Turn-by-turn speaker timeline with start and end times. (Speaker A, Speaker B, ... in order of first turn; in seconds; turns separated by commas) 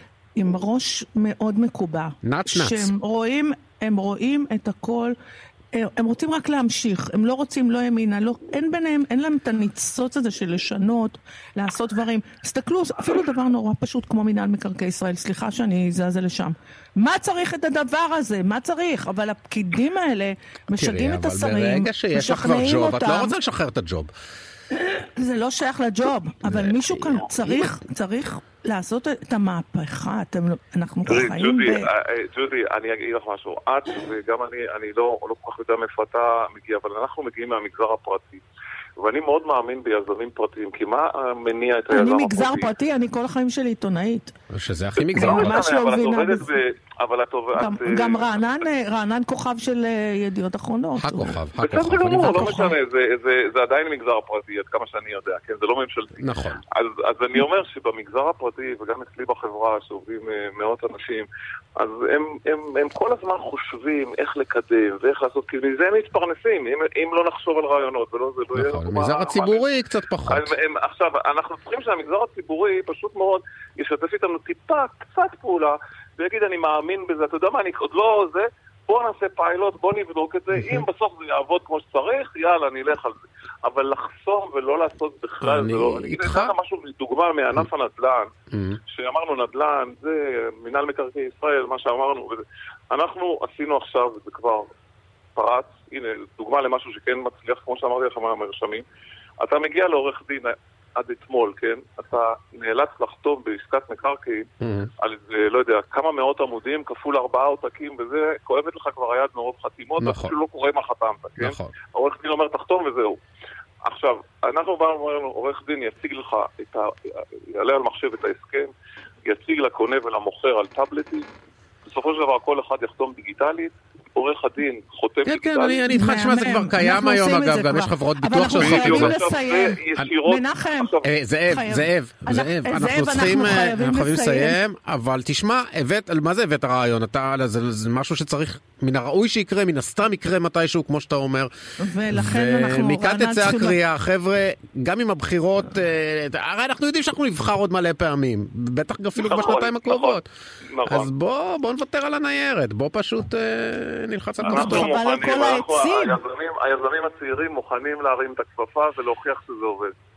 Speaker A: 0.4-5.1, Speaker B: 2.2-2.9, Speaker A: 5.7-23.3, Speaker B: 20.7-24.1, Speaker A: 24.7-31.9, Speaker B: 26.4-27.7, Speaker C: 31.1-38.4, Speaker C: 39.0-42.7, Speaker A: 41.9-44.3, Speaker B: 44.5-45.6, Speaker C: 45.0-48.4, Speaker A: 45.1-46.5, Speaker A: 47.6-51.4, Speaker B: 51.0-52.6, Speaker C: 51.6-61.3, Speaker A: 52.1-52.8, Speaker B: 56.2-56.6, Speaker C: 61.8-69.6, Speaker B: 68.5-70.5, Speaker C: 70.3-88.3, Speaker B: 85.4-86.5, Speaker B: 88.5-88.8, Speaker C: 88.9-94.7, Speaker C: 95.4-98.8, Speaker C: 99.4-113.2, Speaker B: 104.6-104.9, Speaker B: 110.0-110.3, Speaker B: 111.4-111.7, Speaker C: 113.8-118.7, Speaker C: 119.3-121.2, Speaker C: 121.9-125.8, Speaker B: 125.2-129.2, Speaker A: 125.9-130.9, Speaker C: 128.5-131.1, Speaker B: 131.0-141.5, Speaker A: 131.5-134.6, Speaker A: 141.8-143.8, Speaker B: 142.1-150.3, Speaker C: 149.2-151.1, Speaker B: 150.8-154.9, Speaker A: 154.4-156.2, Speaker C: 154.4-159.9